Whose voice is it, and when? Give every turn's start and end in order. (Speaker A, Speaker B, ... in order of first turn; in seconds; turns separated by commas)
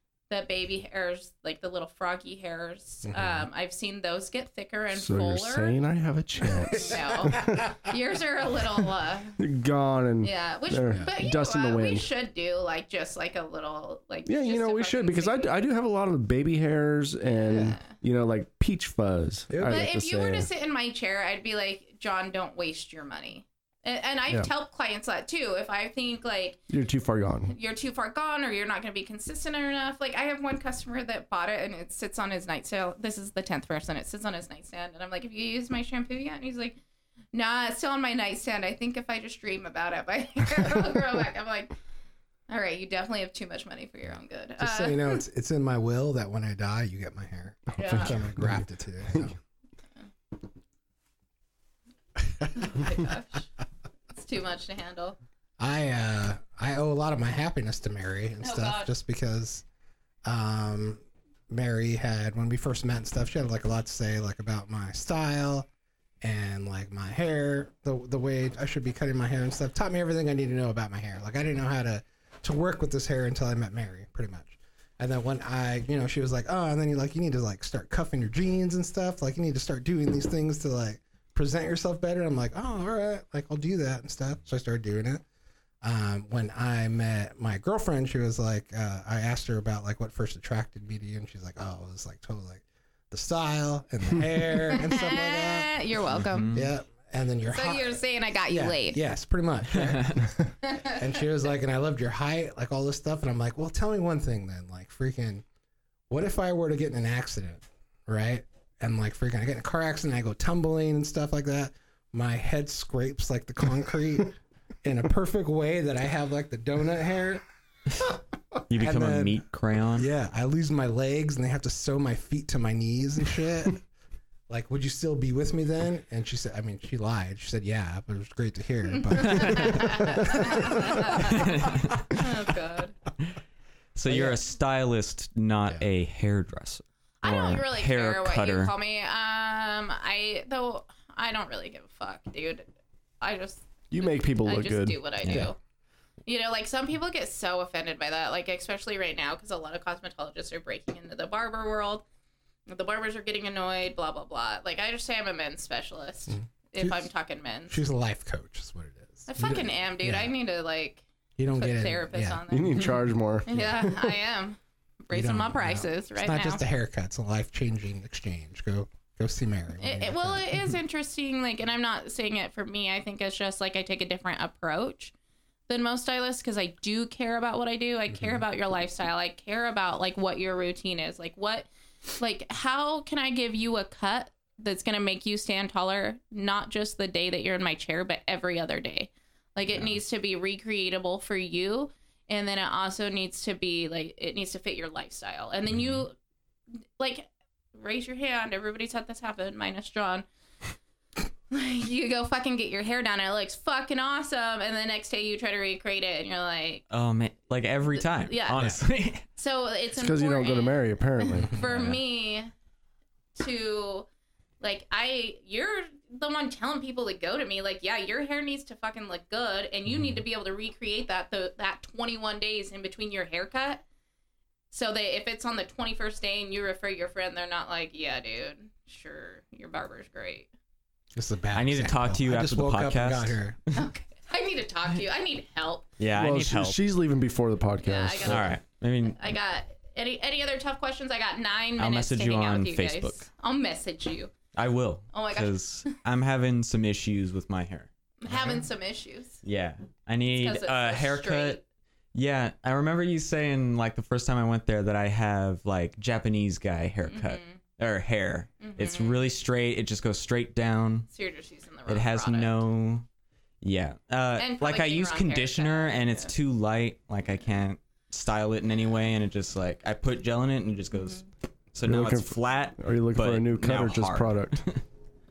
Speaker A: 0.3-5.7, Speaker B: 3.0-3.5, Speaker C: 4.9-7.7, Speaker A: 6.7-9.4, Speaker B: 6.8-7.6, Speaker C: 9.4-12.0, Speaker A: 10.2-15.6, Speaker B: 10.9-11.1, Speaker C: 14.3-20.5, Speaker A: 17.2-17.9, Speaker B: 19.5-19.9, Speaker A: 19.6-26.6, Speaker C: 26.7-27.5, Speaker A: 27.5-36.8, Speaker A: 37.3-41.7, Speaker A: 42.5-45.2, Speaker B: 44.6-49.4, Speaker A: 47.8-48.2, Speaker C: 47.8-48.6, Speaker A: 52.5-53.5, Speaker A: 54.1-55.2, Speaker B: 55.6-59.6, Speaker A: 58.4-58.9, Speaker B: 60.2-65.7, Speaker B: 66.2-85.2, Speaker B: 85.8-95.7, Speaker A: 94.7-96.5, Speaker D: 96.1-96.7, Speaker B: 96.5-105.4, Speaker A: 97.5-99.0, Speaker D: 99.7-100.3, Speaker A: 100.6-101.0, Speaker B: 106.1-117.4, Speaker D: 118.7-120.1, Speaker B: 118.7-119.4, Speaker B: 119.9-123.8, Speaker B: 124.5-131.4, Speaker A: 128.9-133.0, Speaker D: 129.2-129.7, Speaker D: 131.2-132.2, Speaker D: 133.9-138.7, Speaker B: 134.1-134.4, Speaker A: 137.2-142.7, Speaker A: 143.2-145.6, Speaker C: 143.9-145.0, Speaker D: 145.2-145.5, Speaker A: 146.2-152.0, Speaker A: 152.7-157.8, Speaker B: 156.3-157.1, Speaker B: 157.7-160.3, Speaker A: 159.3-161.0, Speaker B: 161.4-162.4, Speaker A: 161.5-162.9, Speaker C: 162.5-164.1, Speaker A: 163.5-166.6, Speaker B: 163.5-163.9, Speaker B: 165.1-170.8, Speaker A: 169.8-175.1, Speaker A: 175.7-181.7, Speaker B: 178.1-178.4, Speaker A: 182.2-196.1, Speaker A: 197.0-200.2, Speaker A: 201.5-206.8, Speaker D: 206.9-209.2, Speaker A: 208.2-208.7, Speaker A: 209.3-212.5, Speaker C: 209.9-211.5, Speaker D: 211.6-212.0, Speaker A: 213.3-214.1, Speaker A: 214.6-223.8, Speaker D: 219.9-220.2, Speaker A: 224.7-230.5, Speaker B: 231.1-233.6, Speaker D: 231.5-233.8, Speaker A: 233.7-235.9, Speaker D: 236.0-236.8, Speaker C: 236.1-238.6, Speaker A: 237.8-244.3, Speaker D: 238.2-239.2, Speaker D: 241.8-243.3, Speaker D: 244.5-247.9, Speaker A: 245.1-245.9, Speaker A: 248.2-249.4, Speaker B: 248.3-248.6, Speaker D: 249.4-251.6, Speaker A: 250.3-251.6, Speaker D: 252.1-261.1, Speaker A: 257.1-257.6, Speaker A: 258.6-259.2, Speaker A: 261.1-262.6, Speaker D: 261.9-263.1, Speaker D: 263.6-274.8, Speaker A: 264.4-266.3, Speaker C: 271.8-274.6